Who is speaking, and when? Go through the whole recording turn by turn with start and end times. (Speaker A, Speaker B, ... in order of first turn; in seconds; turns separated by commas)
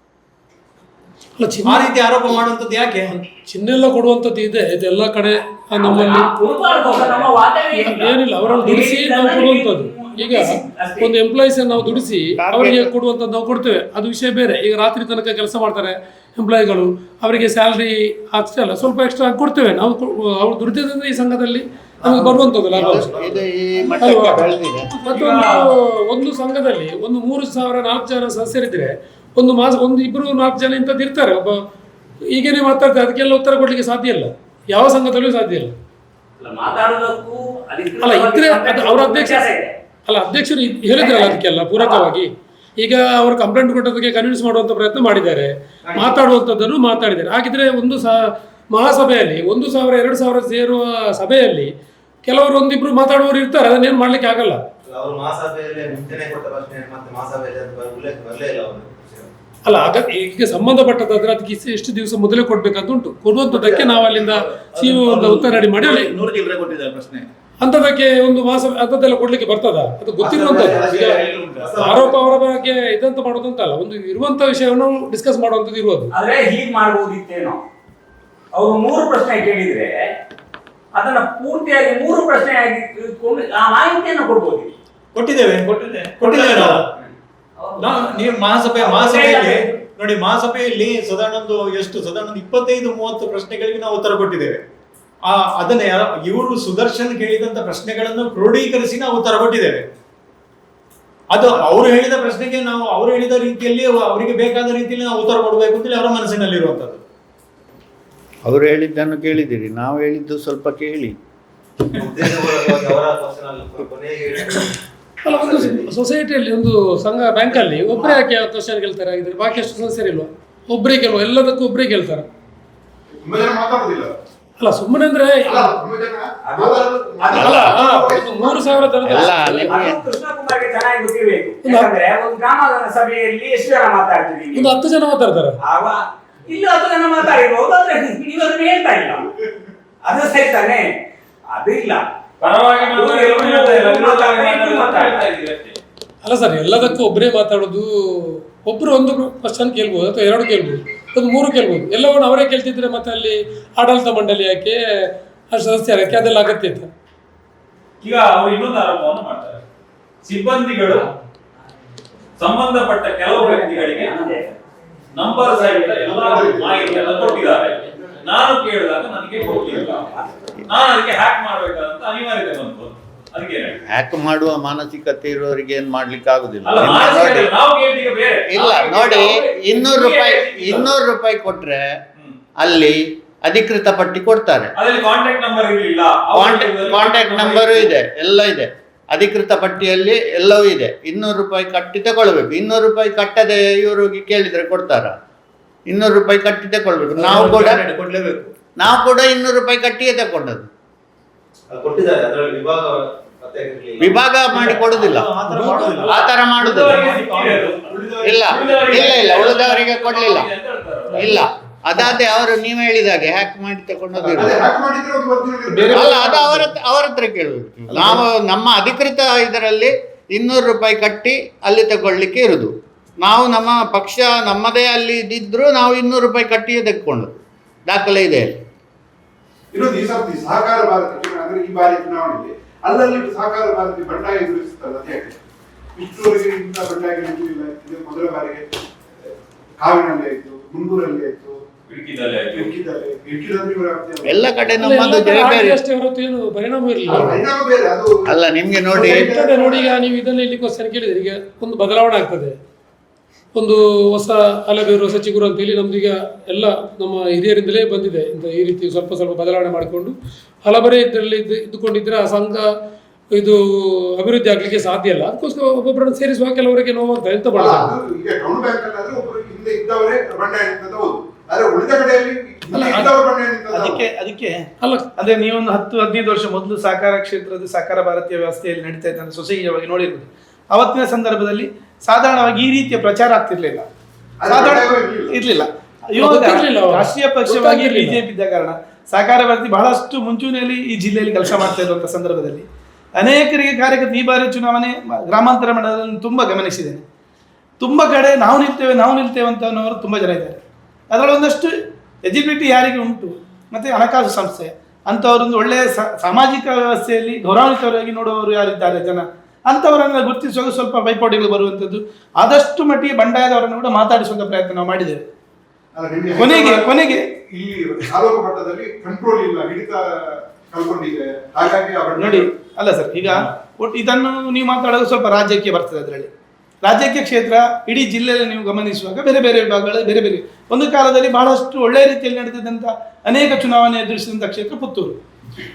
Speaker A: 1.4-1.9, Speaker B: 1.6-3.1, Speaker A: 3.1-6.3, Speaker C: 5.8-11.1, Speaker A: 6.9-23.3, Speaker D: 12.4-12.9, Speaker E: 22.0-23.3, Speaker D: 22.2-24.9, Speaker A: 24.0-31.6, Speaker F: 25.1-25.6, Speaker A: 32.3-35.8, Speaker C: 36.4-39.8, Speaker A: 38.0-39.5, Speaker A: 40.1-51.7, Speaker C: 40.9-42.1, Speaker A: 52.2-54.6, Speaker E: 54.9-59.3, Speaker A: 59.6-66.2, Speaker G: 63.6-63.9, Speaker G: 64.9-65.4, Speaker G: 65.9-67.3, Speaker A: 67.6-76.1, Speaker E: 70.2-72.6, Speaker C: 76.1-77.6, Speaker C: 78.5-80.0, Speaker C: 80.9-84.7, Speaker B: 85.1-86.9, Speaker C: 86.2-86.7, Speaker C: 87.6-88.2, Speaker B: 87.8-94.6, Speaker C: 88.8-89.6, Speaker B: 95.3-99.8, Speaker B: 101.3-107.0, Speaker D: 108.5-111.2, Speaker E: 112.0-114.7, Speaker A: 115.2-122.3, Speaker E: 115.3-115.9, Speaker H: 123.2-124.1, Speaker A: 124.6-125.8, Speaker H: 125.5-129.3, Speaker C: 126.5-126.9, Speaker A: 127.3-129.8, Speaker D: 127.4-127.7, Speaker C: 129.0-134.7, Speaker D: 129.2-130.1, Speaker A: 131.6-131.9, Speaker A: 134.5-135.6, Speaker C: 135.7-139.3, Speaker C: 140.0-140.9, Speaker C: 141.5-142.0, Speaker F: 142.4-145.8, Speaker C: 142.7-145.3, Speaker A: 146.2-154.8, Speaker A: 155.5-156.9, Speaker F: 158.0-159.6, Speaker F: 160.2-161.1, Speaker F: 162.4-164.2, Speaker C: 163.3-164.6, Speaker F: 165.1-173.8, Speaker C: 165.3-166.0, Speaker H: 165.8-167.1, Speaker C: 167.1-167.7, Speaker C: 169.4-170.5, Speaker H: 169.5-169.9, Speaker D: 173.9-177.5, Speaker F: 176.6-180.9, Speaker D: 178.5-181.8, Speaker D: 182.6-184.7, Speaker F: 184.8-187.9, Speaker D: 186.3-195.1, Speaker D: 195.9-197.8, Speaker E: 197.2-198.5, Speaker D: 198.8-200.7, Speaker E: 201.7-204.3, Speaker D: 204.0-205.3, Speaker B: 204.5-207.8, Speaker A: 205.5-206.1, Speaker F: 206.0-211.4, Speaker D: 206.1-207.0, Speaker D: 208.2-210.5, Speaker E: 208.6-208.9, Speaker D: 211.1-214.6, Speaker I: 214.1-214.4, Speaker H: 214.4-216.3, Speaker I: 215.7-216.7, Speaker D: 215.9-222.7, Speaker I: 217.9-218.2, Speaker D: 223.2-228.6, Speaker H: 229.7-235.4, Speaker H: 236.0-238.7, Speaker H: 239.8-241.6, Speaker F: 241.9-242.7, Speaker H: 242.5-245.2, Speaker D: 244.2-245.8, Speaker A: 244.8-247.4, Speaker H: 247.1-250.0, Speaker D: 248.3-249.3, Speaker A: 249.0-252.5, Speaker A: 253.6-262.7, Speaker A: 263.4-263.6, Speaker A: 264.2-267.9, Speaker H: 267.6-274.1, Speaker I: 272.7-273.1, Speaker I: 273.7-283.9, Speaker A: 274.8-275.1, Speaker H: 284.4-285.4, Speaker I: 284.5-297.0, Speaker A: 286.2-288.2, Speaker I: 297.8-315.2, Speaker H: 315.9-322.5, Speaker I: 316.4-317.2, Speaker I: 322.2-326.3, Speaker I: 326.8-335.2